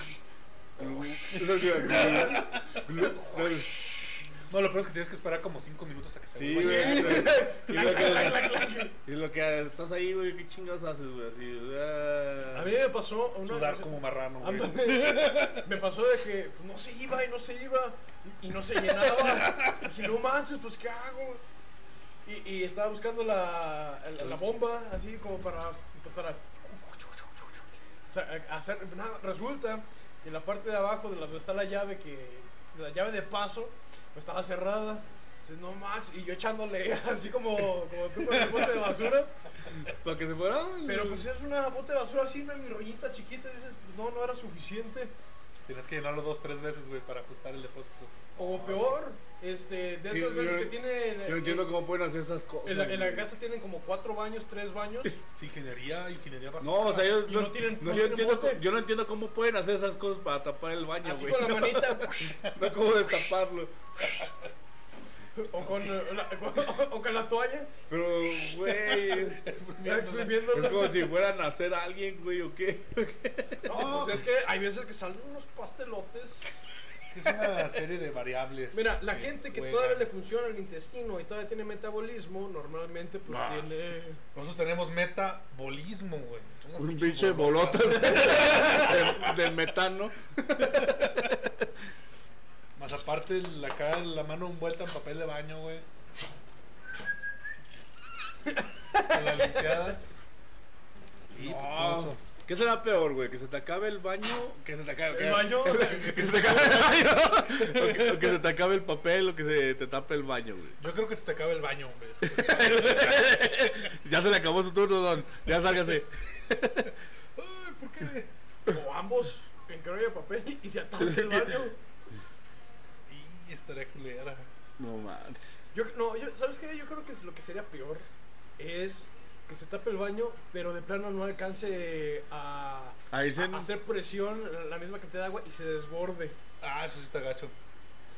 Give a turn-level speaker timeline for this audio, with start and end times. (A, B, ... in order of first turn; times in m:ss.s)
0:00.8-0:03.8 A
0:01.3-0:03.6 B
0:04.5-0:08.6 B
0:06.3-0:12.7 A
0:06.5-0:09.0 C
0:12.5-0:21.4 C
0:13.4-0:15.7 B
0:22.2-0:39.3 C
0:38.5-0:38.9 B
0:39.7-0:41.2 A
0:40.8-0:45.1 C
0:45.6-0:48.8 B
0:48.4-0:51.8 C
0:50.1-0:53.3 A
0:52.6-0:55.2 C
0:55.3-0:57.1 B
0:56.6-1:03.7 A
0:56.8-0:58.6 C
1:01.0-1:02.4 C
1:05.4-1:07.7 C
1:05.6-1:05.9 B
1:07.9-1:09.4 A
1:08.6-1:10.5 B
1:09.8-1:11.1 C
1:10.5-1:13.9 A
1:13.6-1:16.6 C
1:13.7-1:14.2 B
1:17.0-1:20.1 B
1:18.7-1:24.2 C
1:23.3-1:23.7 A
1:24.3-1:28.7 B
1:26.8-1:31.3 A
1:28.2-1:29.0 C
1:30.7-1:31.3 B
1:32.8-1:35.8 B
1:38.5-1:39.6 C
1:39.0-1:40.0 B
1:41.3-1:42.2 B
1:41.3-1:50.8 A
1:45.1-1:47.8 C
1:47.8-1:48.2 B
1:50.8-1:53.7 B
1:52.2-1:56.9 A
1:57.4-1:58.3 B
1:58.7-2:01.8 C
2:01.0-2:01.4 A
2:03.1-2:04.5 B
2:04.8-2:05.4 A
2:05.7-2:08.1 C
2:08.6-2:16.4 C
2:13.1-2:13.7 A
2:16.6-2:17.5 B